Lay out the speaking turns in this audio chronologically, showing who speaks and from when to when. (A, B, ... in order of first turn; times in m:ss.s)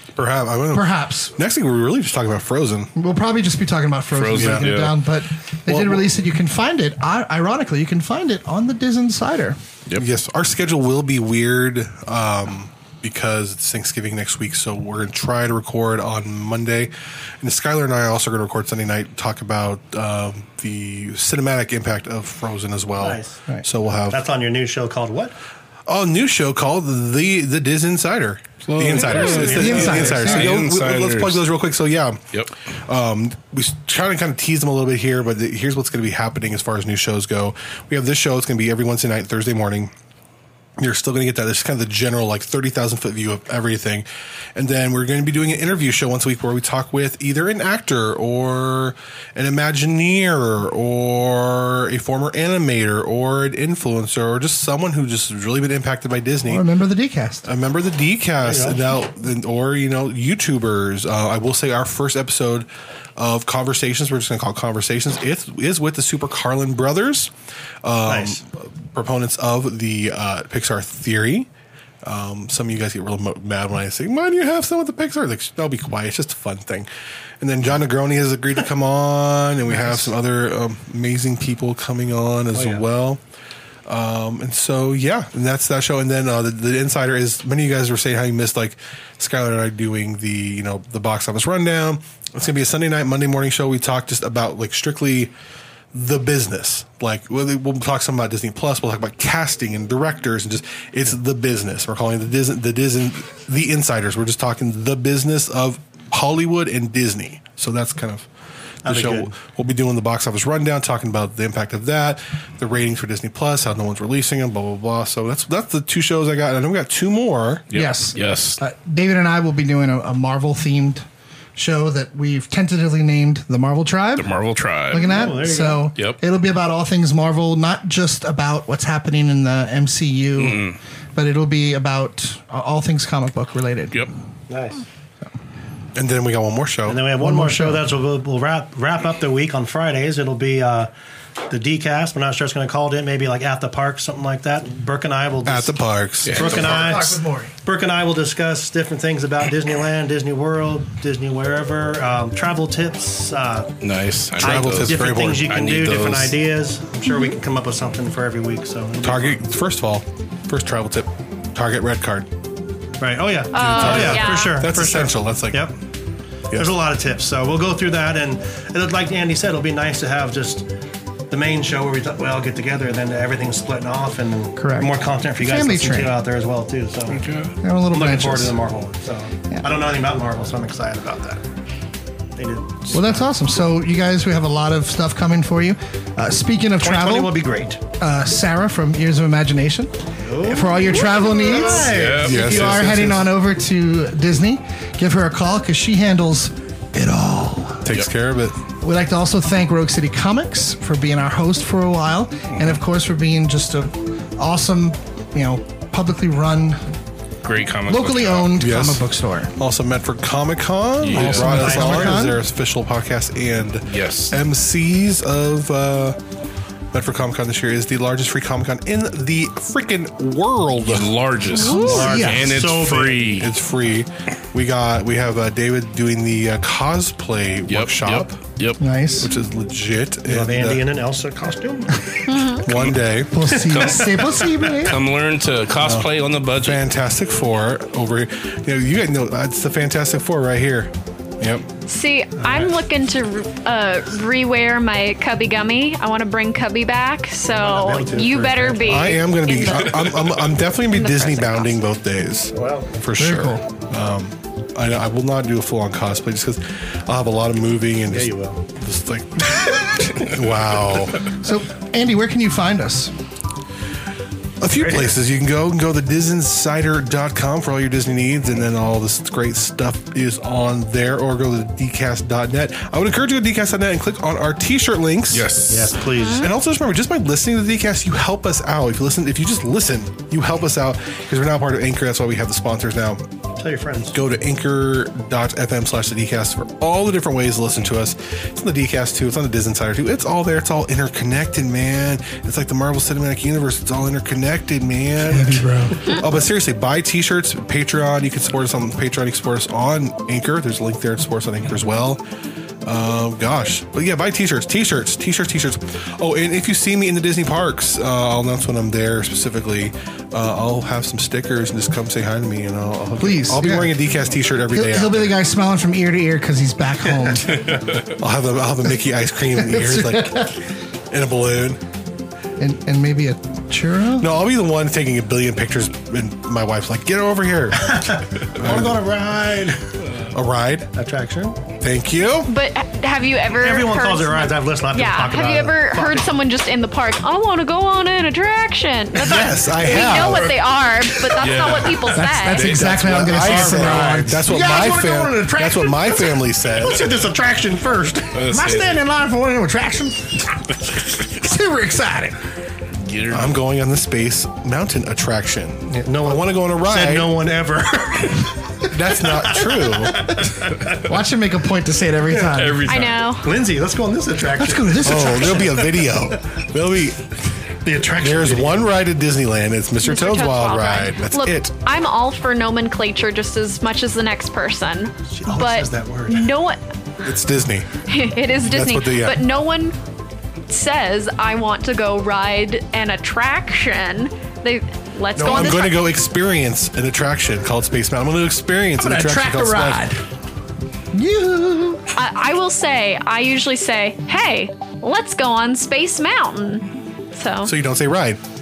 0:00.2-0:02.9 A
0:00.7-0:01.4 B
0:03.0-0:09.6 B
0:04.1-0:05.0 C
0:04.3-0:04.7 A
0:05.7-0:06.1 A
0:10.0-0:24.2 A
0:23.0-0:23.4 D
0:24.1-0:25.3 D
0:25.9-0:32.2 A
0:28.6-0:31.5 C
0:28.9-0:30.3 D
0:29.4-0:30.6 B
0:32.7-0:39.9 A
0:40.8-0:56.6 A
0:56.4-0:57.5 B
0:57.4-1:07.3 A
0:58.4-0:58.8 D
1:07.8-1:11.5 A
1:08.0-1:08.4 D
1:12.0-1:23.2 A
1:19.7-1:20.1 B
1:22.5-1:22.8 D
1:23.9-1:35.3 A
1:35.9-1:48.3 A
1:48.8-1:57.7 A
1:48.8-1:49.3 D
1:57.7-1:58.6 C
1:57.7-2:01.0 B
2:01.6-2:04.3 B
2:04.2-2:05.3 C
2:04.9-2:14.1 B
2:05.0-2:05.8 D
2:10.4-2:10.8 C
2:14.5-2:14.8 D
2:15.9-2:17.1 A
2:16.8-2:20.9 D
2:17.2-2:17.8 B
2:21.5-2:25.8 D
2:25.4-2:26.9 A
2:26.2-2:27.0 C
2:26.3-2:33.7 D
2:26.4-2:27.5 B
2:33.8-2:36.4 C
2:34.4-2:35.6 A
2:34.4-2:39.4 D
2:39.0-2:42.3 A
2:43.0-2:45.7 D
2:43.5-2:44.6 E
2:43.5-2:45.7 A
2:46.5-2:46.8 A
2:46.5-2:50.7 D
2:51.3-2:57.2 D
2:54.6-2:56.2 B
2:57.1-2:57.6 C
2:57.6-2:58.6 B
2:57.9-3:01.4 D
3:02.4-3:03.2 D
3:02.9-3:07.4 B
3:06.8-3:07.8 D
3:07.9-3:18.0 B
3:10.2-3:12.3 D
3:11.8-3:12.8 C
3:12.2-3:13.3 A
3:17.8-3:18.6 A
3:18.8-3:26.8 B
3:22.5-3:22.8 C
3:27.4-3:28.6 C
3:27.9-3:29.5 B
3:28.6-3:29.0 A
3:29.6-3:36.2 A
3:31.0-3:31.8 C
3:31.1-3:32.4 B
3:31.4-3:32.3 D
3:33.9-3:34.4 C
3:36.9-3:41.5 A
3:40.8-3:43.5 C
3:41.5-3:42.5 B
3:41.6-3:42.0 E
3:41.7-3:43.2 D
3:42.9-3:48.4 A
3:47.7-3:48.8 C
3:48.8-3:49.3 B
3:49.2-3:50.9 A
3:50.2-3:52.0 D
3:52.2-3:52.6 E
3:52.6-3:53.4 A
3:52.7-3:54.2 C
3:53.3-3:55.0 B
3:54.8-3:56.8 C
3:55.8-4:01.6 A
4:01.8-4:10.2 E
4:02.4-4:02.7 D
4:07.4-4:09.2 D
4:08.8-4:21.3 A
4:10.9-4:11.8 E
4:12.5-4:12.9 D
4:13.2-4:13.6 B
4:18.1-4:18.6 D
4:21.3-4:23.1 B
4:24.6-4:35.6 A
4:35.3-4:36.0 C
4:35.7-4:36.5 D
4:36.1-4:36.5 E
4:36.3-4:43.2 A
4:43.6-4:44.1 D
4:44.1-5:02.2 A
4:55.2-4:56.1 B
5:02.8-5:15.3 A
5:13.2-5:14.0 B
5:14.7-5:17.6 B
5:17.6-5:18.0 C
5:18.0-5:20.6 A
5:19.6-5:20.5 B
5:21.1-5:21.8 A
5:22.6-5:24.3 B
5:24.2-5:29.0 A
5:27.8-5:29.8 D
5:30.3-5:30.9 A
5:30.9-5:31.6 D
5:31.8-5:32.5 A
5:32.5-5:42.6 E
5:33.5-5:36.3 D
5:39.2-5:40.6 A
5:41.4-5:43.7 C
5:42.0-5:46.5 B
5:42.6-5:47.2 A
5:43.3-5:44.4 D
5:46.8-5:48.4 D
5:48.3-5:49.0 C
5:48.4-5:52.4 B
5:53.0-5:53.6 C
5:53.3-5:57.3 A
5:56.0-6:01.0 D
5:58.8-6:00.4 A
6:01.0-6:02.9 B
6:02.3-6:02.8 D
6:02.5-6:03.3 C
6:02.8-6:03.5 E
6:03.3-6:06.4 D
6:04.6-6:05.8 B
6:05.0-6:07.3 A
6:07.8-6:08.9 D
6:08.2-6:11.7 A
6:10.0-6:16.8 E
6:15.3-6:16.5 D
6:17.2-6:17.9 A
6:18.0-6:20.0 E
6:18.6-6:19.4 A
6:20.7-6:26.1 E
6:25.4-6:30.1 A
6:25.4-6:25.7 D
6:29.0-6:30.2 B
6:31.1-6:32.1 B
6:32.1-6:37.7 E
6:37.6-6:38.4 A